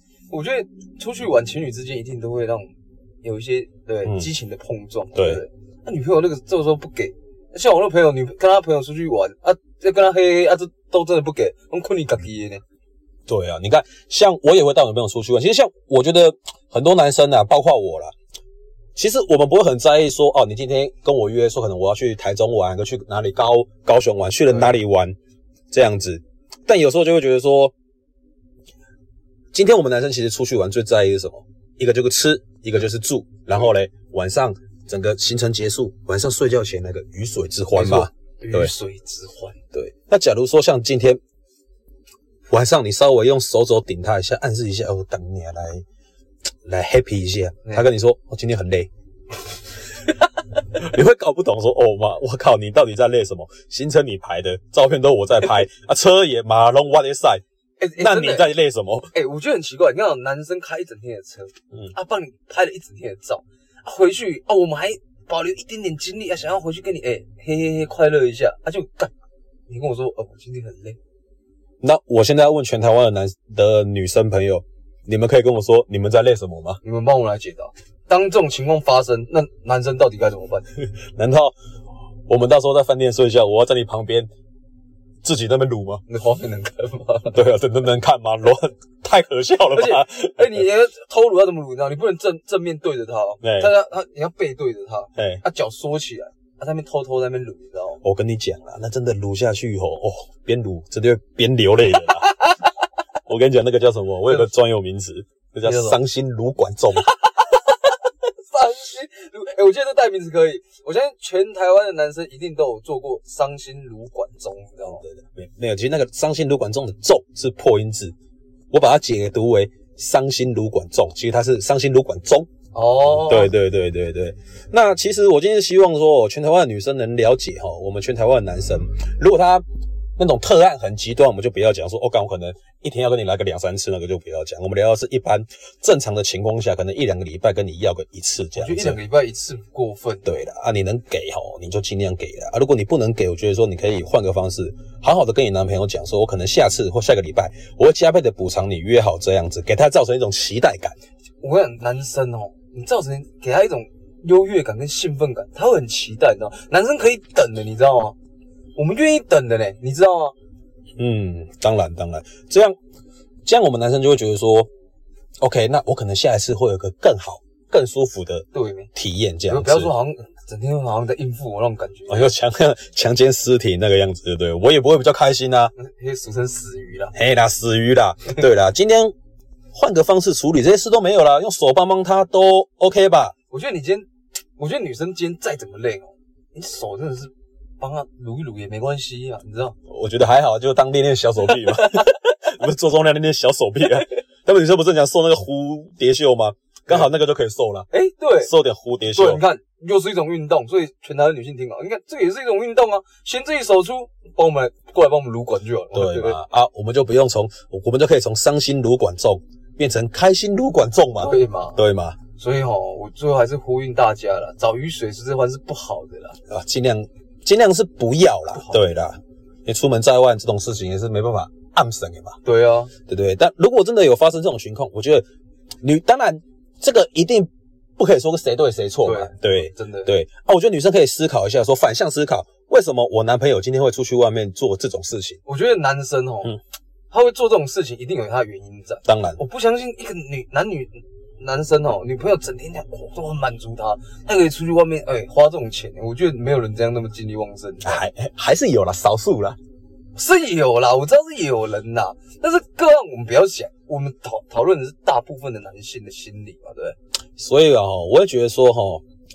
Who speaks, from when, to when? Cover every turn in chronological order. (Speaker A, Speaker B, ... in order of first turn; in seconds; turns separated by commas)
Speaker A: 0.3-12.6, Speaker B: 5.1-5.4, Speaker B: 13.3-18.1, Speaker B: 18.9-25.1, Speaker A: 24.5-24.7, Speaker B: 25.7-27.7, Speaker B: 29.5-38.7, Speaker A: 37.7-39.6, Speaker B: 39.7-41.2, Speaker B: 42.5-45.8, Speaker B: 46.6-48.9, Speaker B: 50.7-57.4, Speaker A: 57.8-58.5, Speaker B: 58.0-59.1, Speaker A: 59.1-69.1, Speaker A: 69.7-71.0, Speaker B: 71.8-76.8, Speaker A: 76.8-80.7, Speaker B: 80.9-81.5, Speaker B: 82.3-84.3, Speaker B: 85.2-86.0, Speaker A: 86.1-87.4, Speaker B: 87.3-90.6, Speaker A: 89.7-98.0, Speaker B: 93.4-93.7, Speaker B: 95.2-95.4, Speaker B: 98.0-102.3, Speaker A: 102.2-102.6, Speaker B: 103.3-107.1, Speaker A: 105.6-106.0, Speaker A: 106.9-115.0, Speaker B: 115.0-118.1, Speaker B: 118.7-122.5, Speaker A: 122.7-123.5, Speaker B: 123.2-129.6, Speaker B: 130.2-139.0, Speaker A: 138.6-140.3, Speaker B: 140.2-150.9, Speaker A: 151.4-158.2, Speaker A: 158.8-160.3, Speaker B: 161.0-162.8, Speaker B: 163.4-164.7, Speaker B: 165.4-169.9, Speaker A: 168.5-168.9, Speaker A: 169.5-172.3, Speaker B: 172.1-175.7, Speaker A: 175.7-177.1, Speaker B: 177.1-179.1, Speaker B: 179.7-183.3, Speaker A: 183.5-189.8, Speaker B: 189.9-197.9, Speaker A: 191.7-192.1, Speaker A: 197.9-198.5, Speaker B: 198.4-199.4, Speaker A: 199.1-206.4, Speaker B: 205.9-212.2, Speaker A: 211.2-211.8, Speaker A: 212.3-216.4, Speaker B: 216.5-222.4, Speaker A: 218.6-218.9, Speaker A: 222.4-222.9, Speaker B: 223.1-225.2, Speaker B: 225.8-235.4, Speaker A: 229.0-230.1, Speaker A: 235.4-236.6, Speaker A: 237.1-248.0, Speaker B: 239.1-239.4, Speaker B: 247.8-249.6, Speaker A: 250.2-257.0, Speaker B: 257.4-259.0